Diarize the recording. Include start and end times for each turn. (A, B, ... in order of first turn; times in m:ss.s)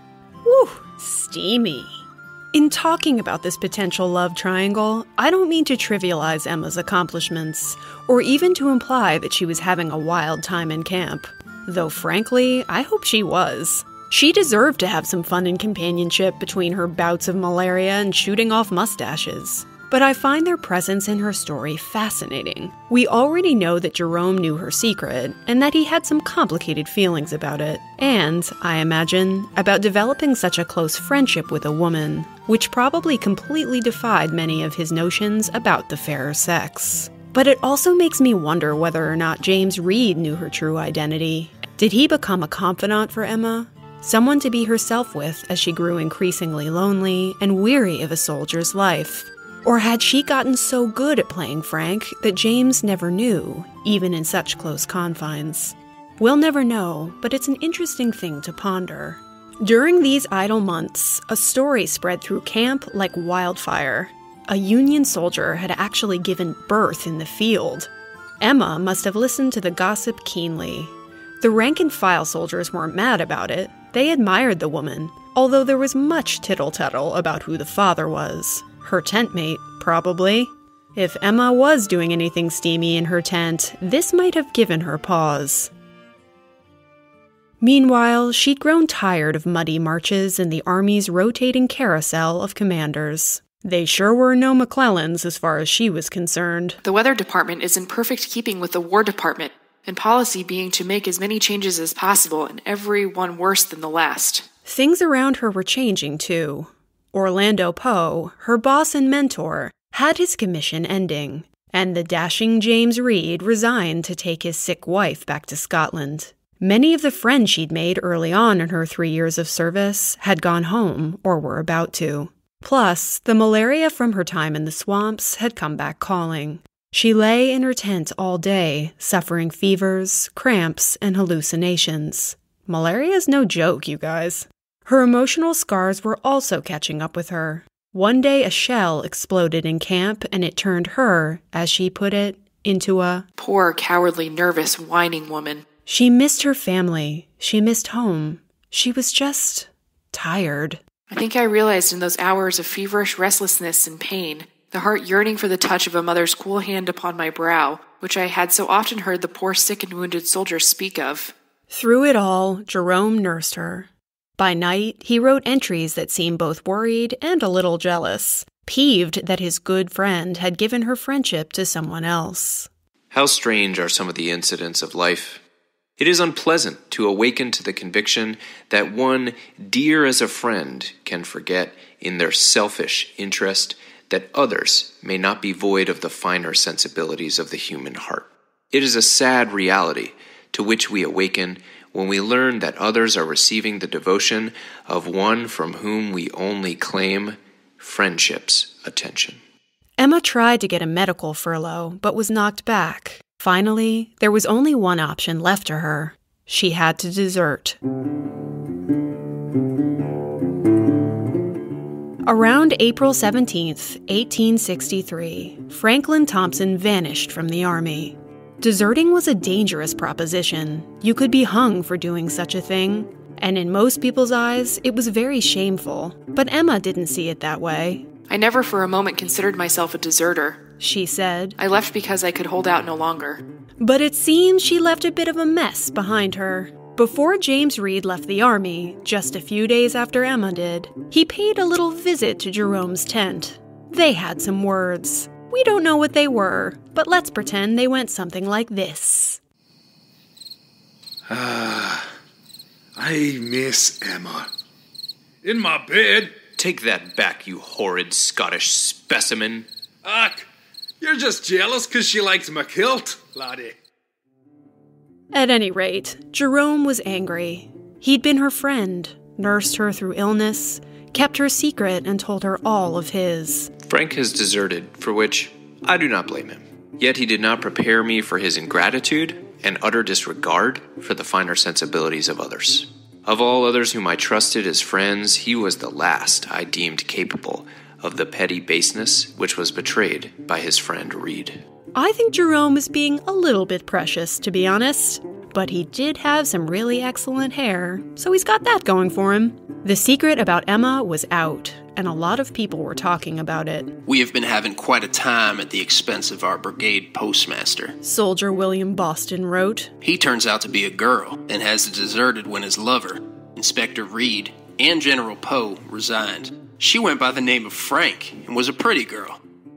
0:00.4-1:25.7 A
1:27.6-1:36.8 A
1:36.8-1:44.5 B
1:44.6-2:23.3 A
2:23.4-2:25.6 B
2:25.9-2:30.8 A
2:31.1-2:41.3 B
2:41.7-2:52.7 A
2:53.1-2:55.4 C
2:56.0-3:19.4 C
3:20.0-3:27.8 A
3:32.3-3:48.1 A
3:48.3-3:50.7 B
3:50.8-3:51.6 A
3:51.6-3:53.4 B
3:53.8-4:09.4 A
4:11.3-4:12.1 D
4:13.0-4:14.5 D
4:15.4-4:16.4 D
4:16.5-4:19.7 C
4:20.0-4:20.5 D
4:21.0-4:23.8 D
4:25.3-4:33.7 A
4:33.8-4:51.6 C
4:52.0-5:04.0 A
5:04.1-5:08.0 E
5:08.0-5:09.9 A
5:10.0-5:19.4 E